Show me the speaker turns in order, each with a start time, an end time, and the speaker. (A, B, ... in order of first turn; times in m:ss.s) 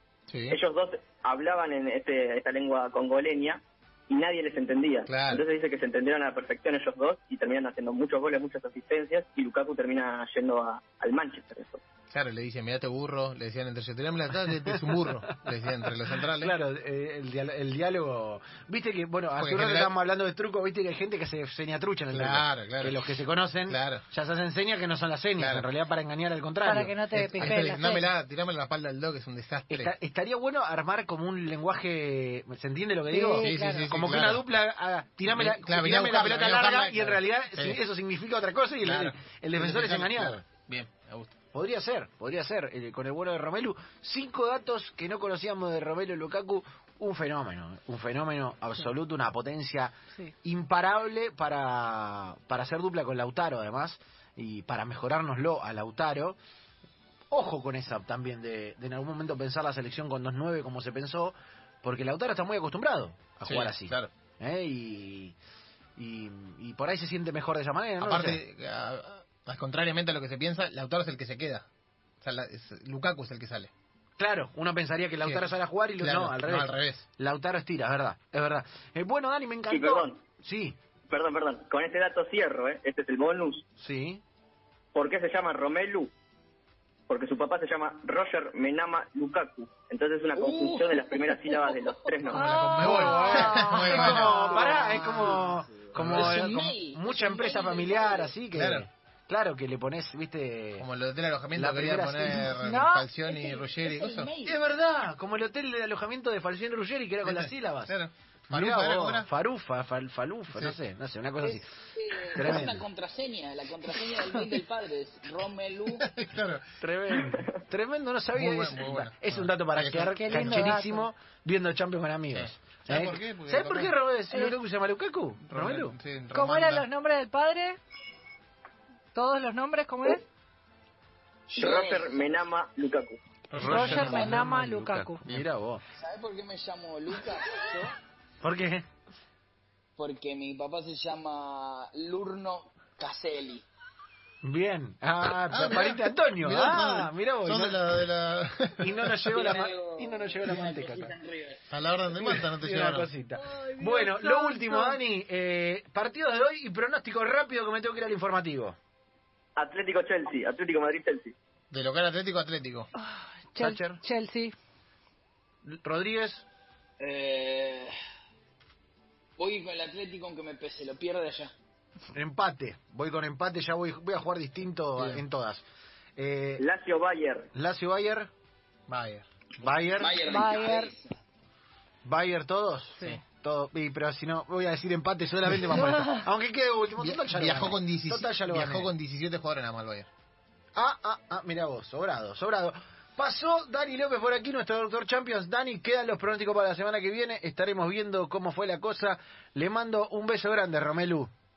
0:00.3-0:00.6 A
0:00.5-0:11.8 B
0:05.0-0:05.4 A
0:12.1-0:16.5 A
0:16.3-0:27.8 C
0:19.4-0:19.9 A
0:22.1-0:23.0 A
0:23.7-0:24.0 A
0:25.4-0:25.7 A
0:26.6-0:28.1 D
0:27.1-0:29.9 A
0:29.7-0:40.4 C
0:33.1-0:33.9 D
0:33.3-0:34.4 A
0:35.3-0:37.8 A
0:38.8-0:41.3 A
0:41.5-0:56.4 C
0:57.3-1:05.3 C
1:03.4-1:04.1 A
1:06.0-1:08.4 C
1:08.0-1:11.6 A
1:12.2-1:13.7 A
1:14.2-1:20.8 C
1:16.0-1:17.0 A
1:19.7-1:20.2 B
1:21.1-1:23.6 B
1:23.8-1:24.2 C
1:24.9-1:26.1 B
1:27.1-1:32.6 B
1:30.3-1:32.0 E
1:32.3-1:35.1 D
1:32.4-1:40.9 C
1:32.8-1:34.5 A
1:34.0-1:38.3 E
1:35.9-1:36.6 A
1:38.5-1:38.8 A
1:40.8-1:44.3 A
1:41.5-1:42.6 C
1:42.5-1:43.1 D
1:43.2-1:44.6 E
1:44.4-1:47.9 C
1:47.2-1:49.3 A
1:48.5-1:51.7 C
1:51.4-1:56.0 E
1:52.3-1:52.8 C
1:55.9-1:56.6 A
1:56.8-2:06.0 C
1:58.3-2:00.2 A
2:00.0-2:01.1 D
2:02.3-2:03.9 A
2:04.3-2:04.6 D
2:05.5-2:06.9 A
2:06.3-2:07.8 D
2:09.1-2:10.2 D
2:11.5-2:12.3 E
2:11.6-2:13.2 B
2:13.5-2:14.5 A
2:13.6-2:15.2 D
2:13.6-2:15.8 C
2:13.9-2:14.2 E
2:16.0-2:18.0 E
2:18.4-2:18.8 C
2:20.0-2:23.6 E
2:24.4-2:28.0 C
2:25.5-2:29.2 A
2:28.8-2:31.1 C
2:29.3-2:31.7 E
2:31.7-2:33.1 A
2:32.2-2:38.8 C
2:33.5-2:35.0 D
2:39.6-2:41.3 B
2:41.7-2:42.9 A
2:42.9-2:44.5 D
2:43.6-2:44.0 C
2:45.6-2:46.4 C
2:47.0-2:47.9 E
2:49.4-2:51.5 E
2:52.1-2:55.6 C
2:55.0-2:55.2 A
2:56.2-2:56.6 C
2:56.6-2:57.5 B
2:57.5-2:58.3 C
2:58.9-2:59.2 A
2:59.6-3:00.2 C
2:59.6-3:01.2 E
3:00.2-3:00.9 D
3:02.0-3:08.9 C
3:05.5-3:05.8 A
3:07.0-3:10.1 A
3:10.7-3:21.3 C